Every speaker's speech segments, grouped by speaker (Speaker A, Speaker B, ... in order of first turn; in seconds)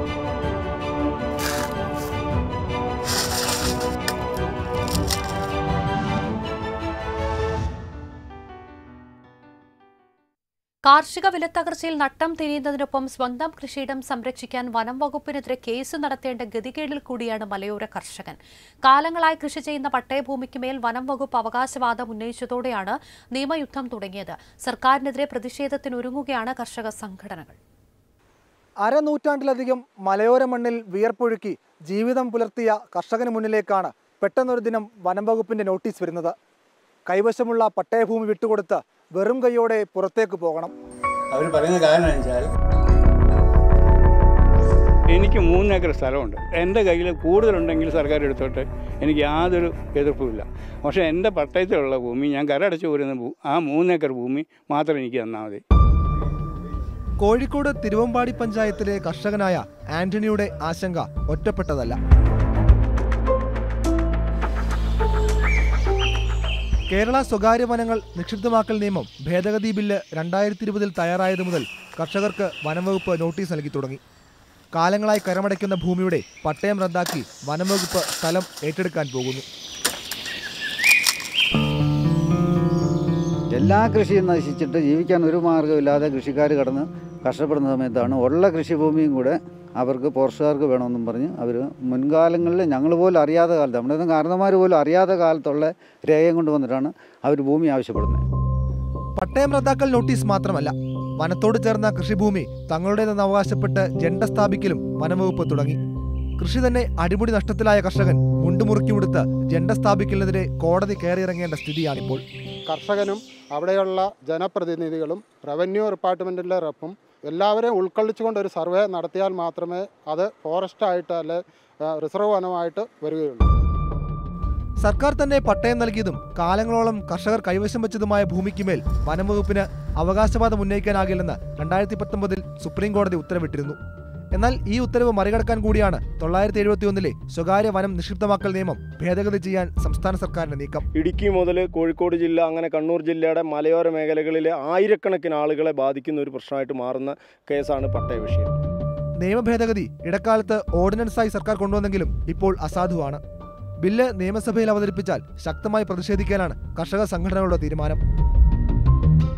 Speaker A: 10.8-27.6
Speaker B: 28.8-36.3, 37.1-40.7, 57.2-62.0, 66.9-74.0, 74.7-79.4, 99.2-105.8, 106.4-112.2, 124.8-133.8, 134.3-140.8, 149.2-153.2, 153.8-158.0
Speaker C: 41.3-42.5, 45.1-55.6
Speaker D: 83.5-98.2
Speaker E: 112.7-123.5
Speaker F: 140.9-148.6